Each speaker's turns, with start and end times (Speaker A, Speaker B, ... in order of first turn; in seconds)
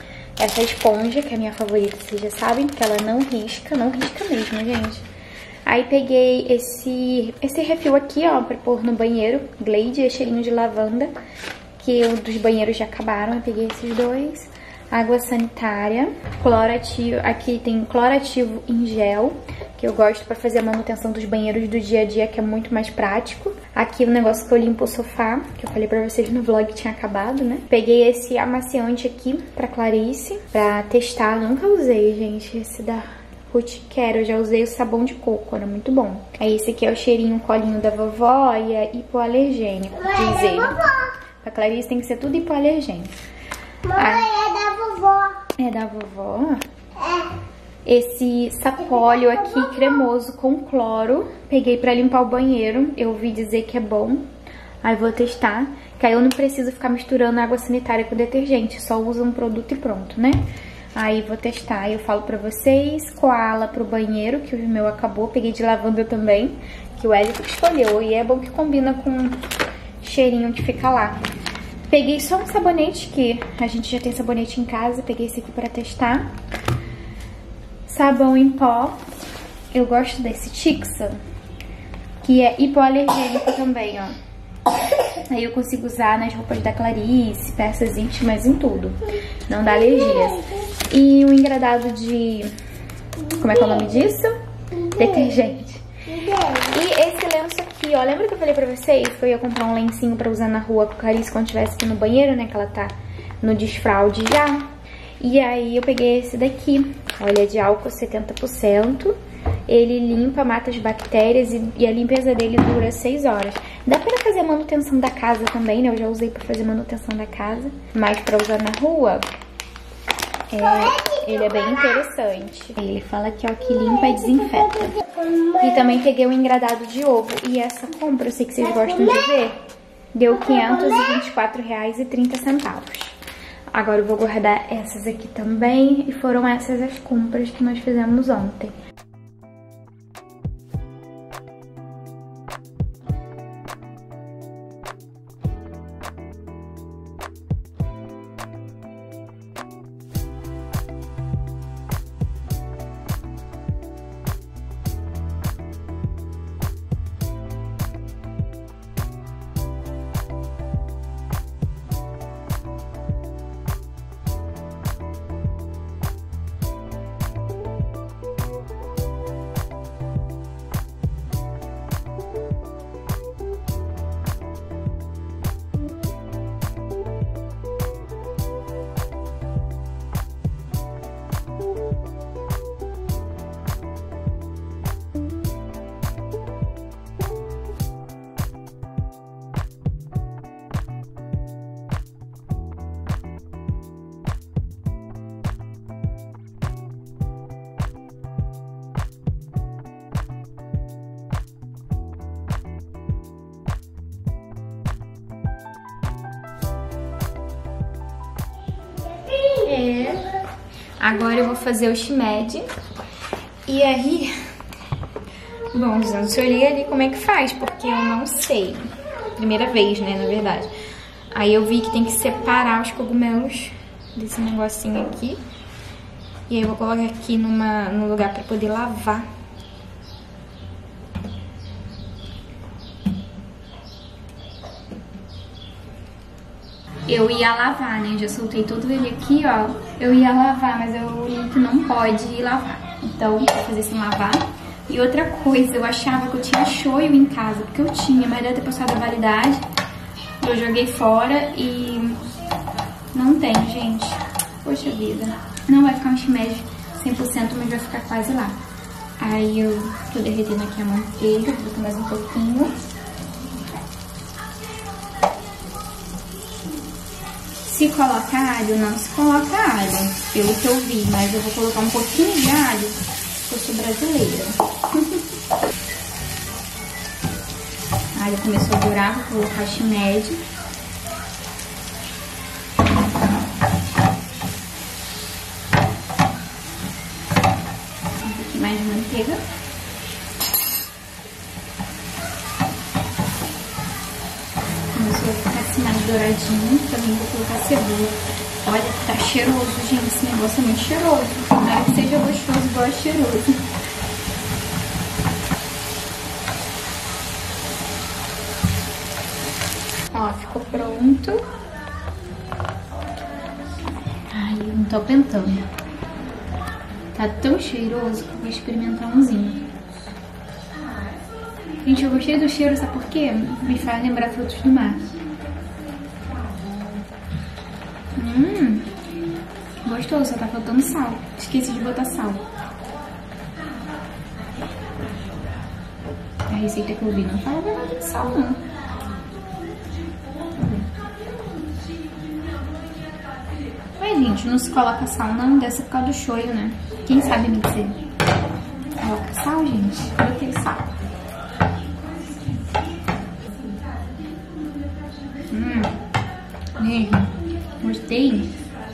Speaker A: 0.4-5.0, 5.7-11.1, 11.8-40.9, 41.4-43.1, 44.0-44.3, 45.6-46.6, 47.8-54.3, 54.8-60.4, 60.9-69.4, 70.0-71.2, 71.9-76.3, 77.8-79.0, 79.7-81.2, 82.2-84.2, 85.3-92.5, 93.3-94.3, 94.9-95.8, 96.7-104.7, 105.2-109.2, 109.7-119.3, 120.5-125.0, 125.6-129.6, 130.1-133.2, 133.7-138.7, 209.6-210.3, 211.0-212.7, 213.7-214.3, 215.7-220.7, 221.3-225.4, 226.5-229.3, 237.1-249.6, 250.4-252.2, 253.1-258.6, 259.2-262.7, 267.6-275.2, 278.1-280.4, 288.2-289.4, 294.9-303.6, 310.1-311.4, 314.3-315.7, 317.1-319.7, 321.8-325.1, 328.2-328.9, 329.8-332.4, 336.5-338.7, 340.4-340.9, 344.0-348.0, 349.0-350.9, 355.5-356.0, 356.8-358.6
Speaker B: 39.9-41.1, 43.8-45.4, 47.0-47.3, 48.8-50.0, 89.6-90.7, 93.2-93.9, 94.7-95.5, 96.0-96.8, 120.6-122.1, 123.6-126.0, 128.6-129.4, 130.3-131.3, 208.7-210.4